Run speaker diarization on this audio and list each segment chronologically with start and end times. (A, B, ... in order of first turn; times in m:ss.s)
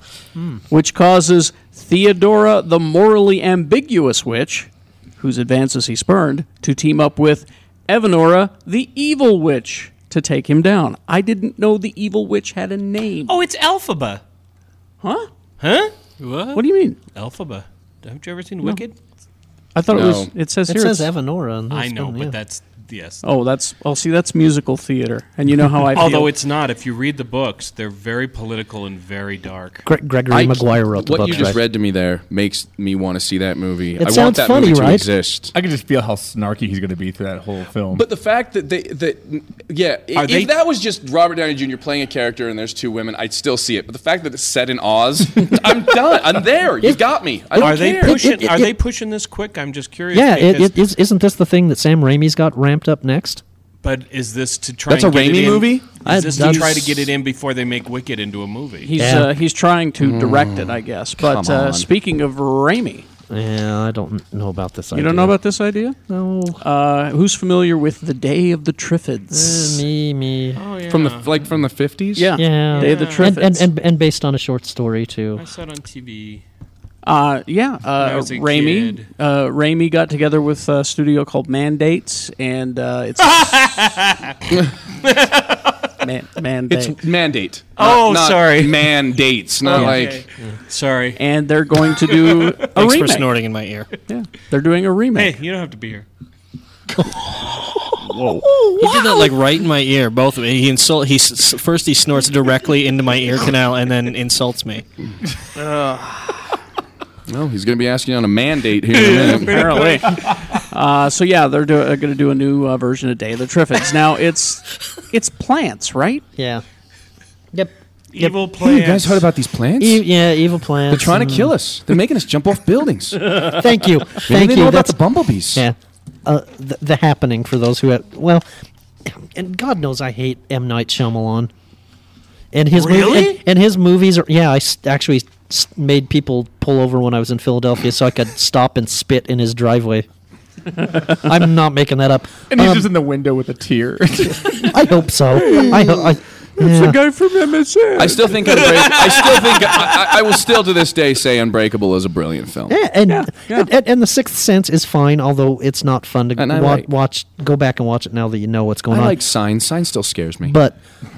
0:00.7-0:13.4 A
0:13.3-0:14.2 B
0:15.0-0:15.3 A
0:15.6-0:19.0 B
0:16.5-0:17.0 A
0:19.8-0:21.1 A
0:19.9-0:20.3 C
0:20.7-0:22.4 D
0:21.7-0:23.2 B
0:23.2-0:26.3 A
0:25.9-0:29.8 B
0:29.9-0:31.6 D
0:30.3-0:35.5 C
0:34.0-0:35.1 D
0:35.5-0:38.1 E
0:37.9-0:48.3 C
0:40.2-0:40.6 B
0:47.6-0:50.8 B
0:47.6-0:48.8 D
0:50.1-0:53.4 D
0:53.8-0:59.0 B
0:54.9-0:56.5 C
0:56.0-0:57.0 D
0:58.8-1:03.1 A
0:59.0-0:59.3 D
1:00.0-1:01.9 C
1:03.3-1:05.4 D
1:04.9-1:06.0 A
1:06.1-1:06.6 D
1:06.6-1:09.8 A
1:09.3-1:10.6 D
1:10.6-1:11.4 B
1:10.9-1:12.4 C
1:12.2-1:13.7 A
1:12.4-1:15.4 D
1:12.7-1:13.3 B
1:15.4-1:16.4 B
1:17.0-1:23.8 A
1:18.0-1:19.1 B
1:23.3-1:24.3 B
1:25.0-1:25.8 B
1:26.0-1:27.0 A
1:26.7-1:30.3 C
1:27.8-1:29.0 B
1:29.6-1:31.2 B
1:31.2-1:33.3 A
1:32.1-1:32.7 B
1:32.8-1:33.9 F
1:34.1-1:35.4 A
1:35.1-1:36.1 B
1:38.1-1:38.8 A
1:38.8-1:44.8 F
1:45.6-1:46.3 A
1:47.3-1:49.7 C
1:48.9-1:56.2 A
1:49.6-1:49.9 B
1:56.4-1:56.6 D
1:57.5-1:58.4 D
1:58.1-1:59.3 B
1:58.5-2:00.0 C
1:59.8-2:01.6 D
2:00.9-2:03.5 C
2:03.4-2:05.0 D
2:04.1-2:05.6 C
2:05.5-2:08.5 D
2:09.1-2:11.5 D
2:12.5-2:20.1 D
2:12.7-2:13.4 B
2:21.2-2:22.9 D
2:22.5-2:24.9 E
2:24.7-2:27.0 D
2:25.3-2:30.0 A
2:28.0-2:32.8 C
2:32.7-2:39.2 D
2:33.1-2:33.7 A
2:36.4-2:36.9 C
2:38.9-2:40.6 C
2:40.4-2:40.8 D